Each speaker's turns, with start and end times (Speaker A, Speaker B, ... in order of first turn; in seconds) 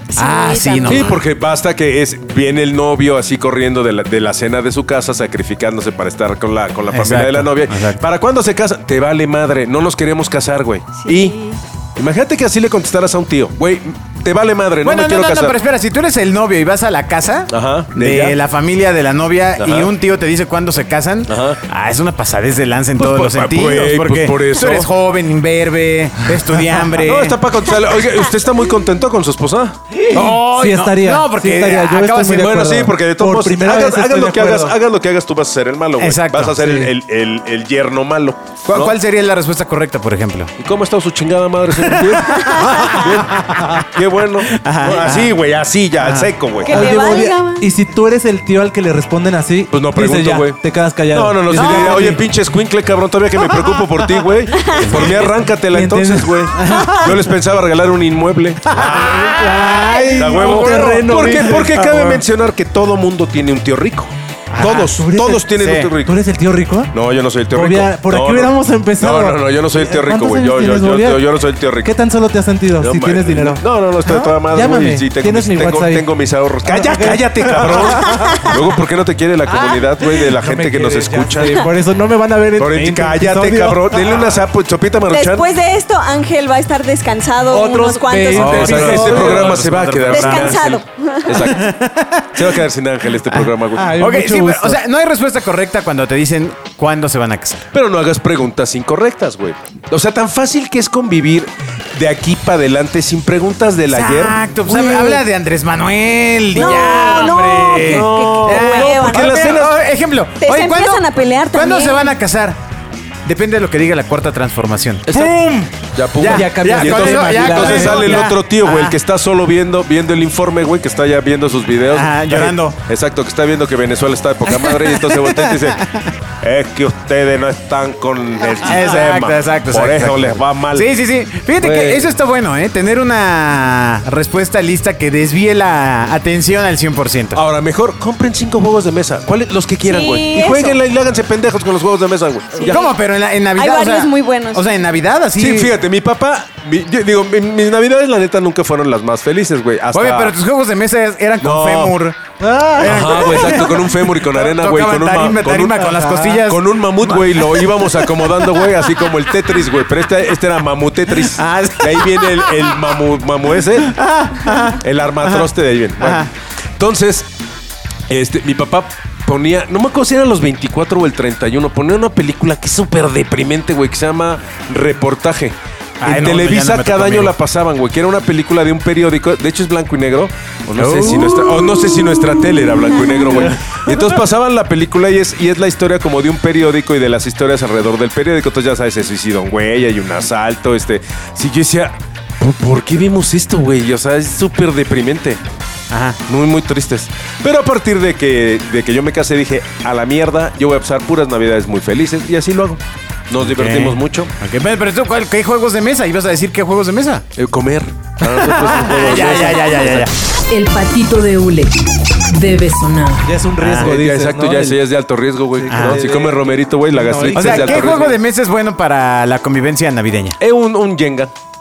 Speaker A: 0.1-1.2, 11.0-11.6, 42.3-42.9, 46.6-47.7, 54.6-55.0, 78.1-78.5, 85.1-89.6, 90.1-91.5, 106.5-109.3, 110.4-112.1, 139.8-140.8, 142.5-142.9, 143.6-144.7
Speaker B: 0.2-1.1, 6.9-8.0, 14.8-27.4, 30.1-32.7, 36.0-36.7, 38.7-40.5, 42.0-43.2, 44.5-45.4, 46.0-46.3, 51.5-52.1, 54.9-55.1, 58.7-60.9, 64.5-64.9, 65.5-65.9, 87.5-90.6, 91.4-92.6, 93.3-97.7, 103.9-112.6, 113.2-119.0, 121.9-122.8, 124.5-126.1, 128.6-137.4, 142.6-145.7, 149.9-158.7, 161.2-162.8, 163.8-166.3, 176.0-177.3, 180.7-181.6, 195.9-196.2, 203.4-207.2, 208.5-210.1, 213.6-213.9, 215.7-216.1, 217.3-220.4
Speaker C: 0.8-11.4, 12.0-15.6, 17.5-18.4, 19.6-19.9, 21.3-21.6, 23.0-24.9, 27.0-29.8, 32.4-39.0, 40.6-47.0, 49.7-58.8, 60.1-66.2, 66.9-72.0, 72.8-81.7, 82.6-85.5, 88.3-91.7, 92.3-94.0, 97.7-105.2, 106.5-109.8, 115.1-115.3, 115.9-125.8, 126.4-130.9, 131.6-132.1, 137.3-142.9, 145.4-150.3, 151.4-152.0, 152.8-155.9, 156.4-164.0, 164.8-167.3, 168.1-195.4, 196.3-204.3, 207.4-210.0, 213.7-218.1, 220.4-221.3
Speaker D: 30.0-34.8, 36.6-36.9, 46.7-52.2, 54.9-57.1, 58.7-62.2, 64.7-65.5, 66.0-66.9, 67.5-76.1, 76.6-78.5, 79.5-84.2, 88.1-89.4, 93.7-94.8, 116.2-118.3, 152.4-153.7, 155.9-156.3, 213.2-214.8, 215.6-216.4, 216.9-218.2
Speaker E: 210.5-213.3